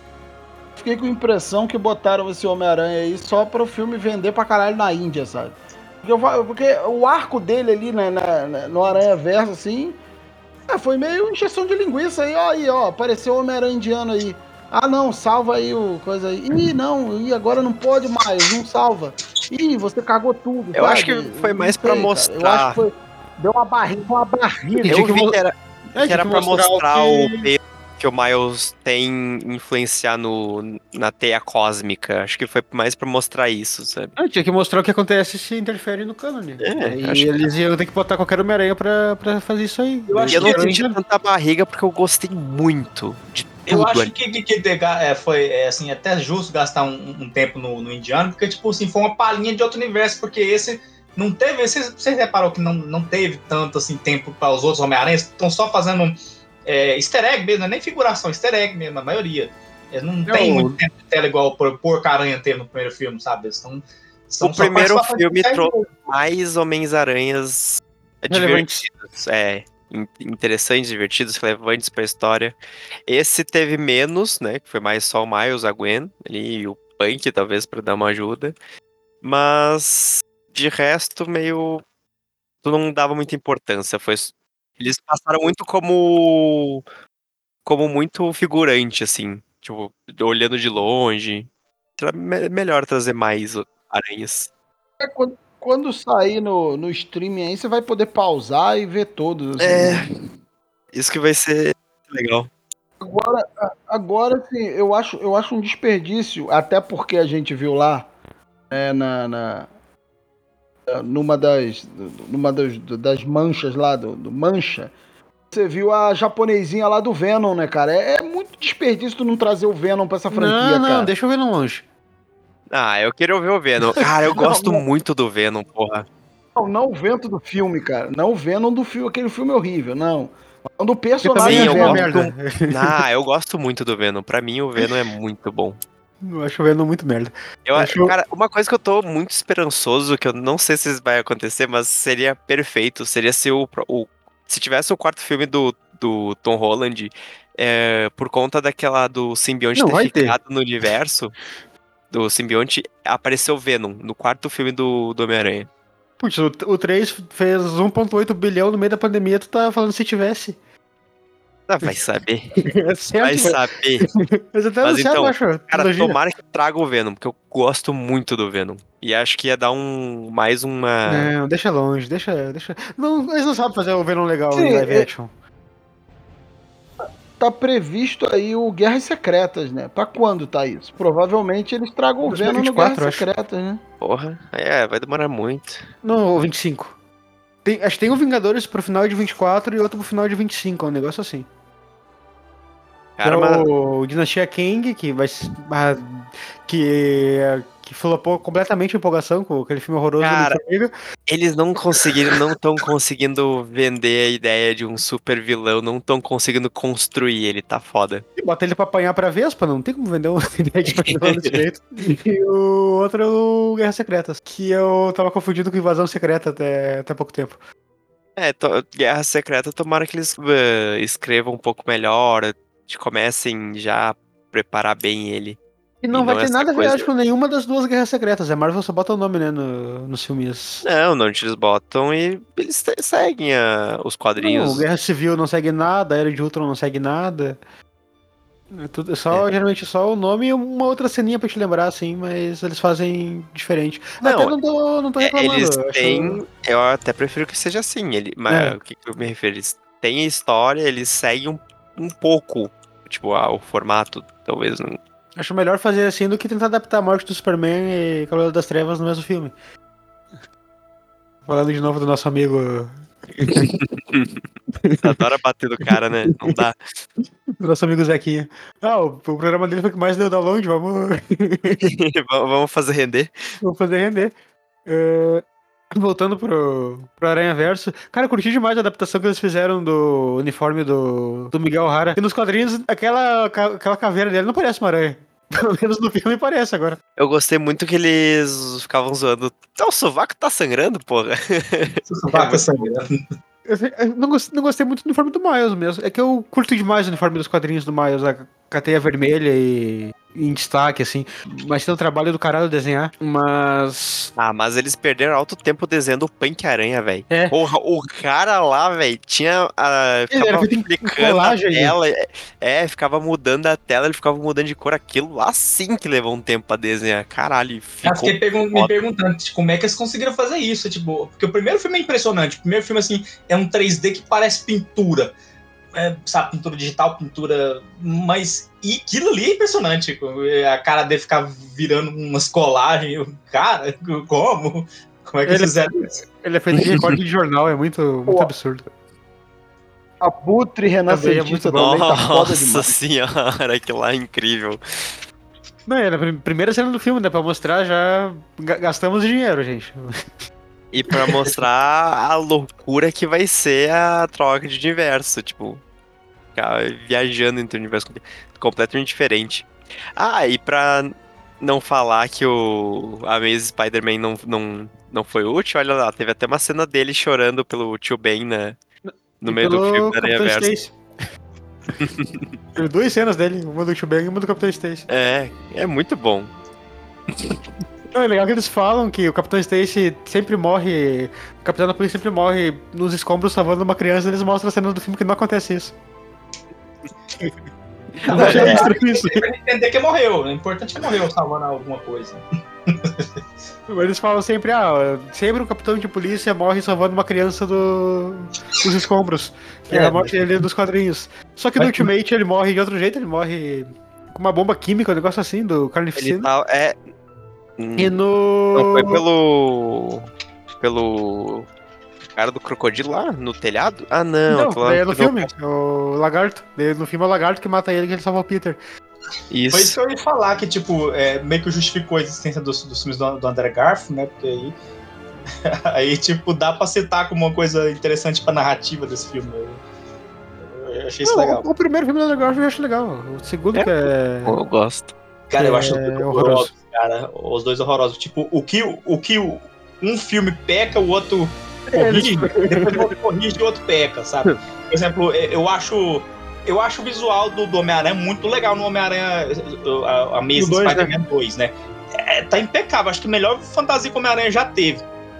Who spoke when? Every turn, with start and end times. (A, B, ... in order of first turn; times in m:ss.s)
0:00.8-0:10.0 A
0:10.7-0:25.1 A
0:20.7-0:22.8 B
0:24.8-0:25.4 C
0:24.8-0:34.1 B
0:25.9-0:27.4 C
0:34.2-0:40.9 C
0:36.6-0:37.3 B
0:40.1-0:40.8 D
0:40.3-0:44.1 B
0:43.7-0:56.1 D
0:56.6-1:05.9 D
1:00.3-1:00.8 C
1:04.4-1:18.6 B
1:08.3-1:08.8 C
1:19.2-1:21.8 B
1:22.6-1:26.8 B
1:27.6-1:34.5 B
1:35.0-1:40.0 A
1:39.6-1:40.1 B
1:40.9-1:42.5 B
1:43.0-1:48.1 A
1:48.7-1:49.7 A
1:50.9-1:54.9 A
1:55.5-2:01.1 A
2:00.3-2:01.8 C
2:02.7-2:06.0 B
2:04.4-2:04.6 A
2:06.6-2:12.1 A
2:11.2-2:13.0 C
2:11.4-2:15.8 B
2:16.2-2:18.1 C
2:17.7-2:31.3 B
2:29.8-2:30.4 C
2:32.1-2:35.7 B
2:36.2-2:40.6 C
2:41.7-2:42.5 B
2:42.6-2:46.2 C
2:43.1-2:44.1 B
2:44.8-2:51.3 B
2:51.1-2:55.3 C
2:54.5-2:55.1 A
2:57.4-3:03.8 A
3:02.2-3:03.2 C
3:04.0-3:05.9 B
3:06.0-3:07.0 C
3:07.6-3:11.5 C
3:13.2-3:13.7 B
3:13.2-3:20.9 C
3:20.2-3:20.6 B
3:21.3-3:28.2 B
3:28.4-3:37.6 C
3:31.0-3:31.5 B
3:38.4-3:45.6 B
3:46.0-3:50.8 C
3:46.1-3:47.1 B
3:50.8-3:54.8 B
3:54.4-3:57.6 C
3:58.7-4:06.4 C
4:04.2-4:04.5 B
4:05.2-4:15.0 B
4:08.5-4:08.7 C
4:15.4-4:19.5 C
4:21.4-4:23.8 C
4:23.6-4:24.4 B
4:24.7-4:25.2 C
4:25.0-4:26.8 B
4:25.8-4:26.6 C
4:27.6-4:31.8 C
4:31.8-4:33.3 B
4:33.6-4:34.3 C
4:34.9-4:47.0 C
4:47.2-4:52.7 B
4:52.1-4:53.2 D
4:53.6-5:04.3 C
5:04.4-5:18.9 B
5:07.3-5:07.5 C
5:10.3-5:11.9 C
5:18.0-5:25.3 D
5:25.9-5:36.1 D
5:35.5-5:35.8 C
5:36.4-5:38.9 C
5:40.2-5:42.9 A
5:41.1-5:41.8 C
5:41.7-5:44.8 B
5:45.9-5:50.2 C
5:50.9-5:55.8 B
5:56.5-6:08.8 B
6:09.1-6:11.0 C
6:09.4-6:10.7 B
6:12.0-6:12.6 B
6:12.7-6:15.0 C
6:15.1-6:16.5 B
6:18.1-6:25.9 C
6:28.2-6:29.4 C
6:28.2-6:33.2 D
6:28.3-6:28.8 B
6:33.9-6:46.5 C
6:39.9-6:40.4 B
6:46.2-6:47.0 B
6:47.8-6:48.2 B
6:48.0-6:49.2 C
6:48.7-6:51.7 B
6:52.4-6:55.5 B
6:54.5-6:58.8 C
6:59.5-7:00.0 B
6:59.7-7:04.7 D
7:05.6-7:09.8 D
7:10.6-7:11.6 D
7:11.2-7:14.6 C
7:13.7-7:15.1 B
7:15.5-7:35.0 D
7:15.5-7:16.7 C
7:21.9-7:23.1 C
7:30.5-7:31.1 C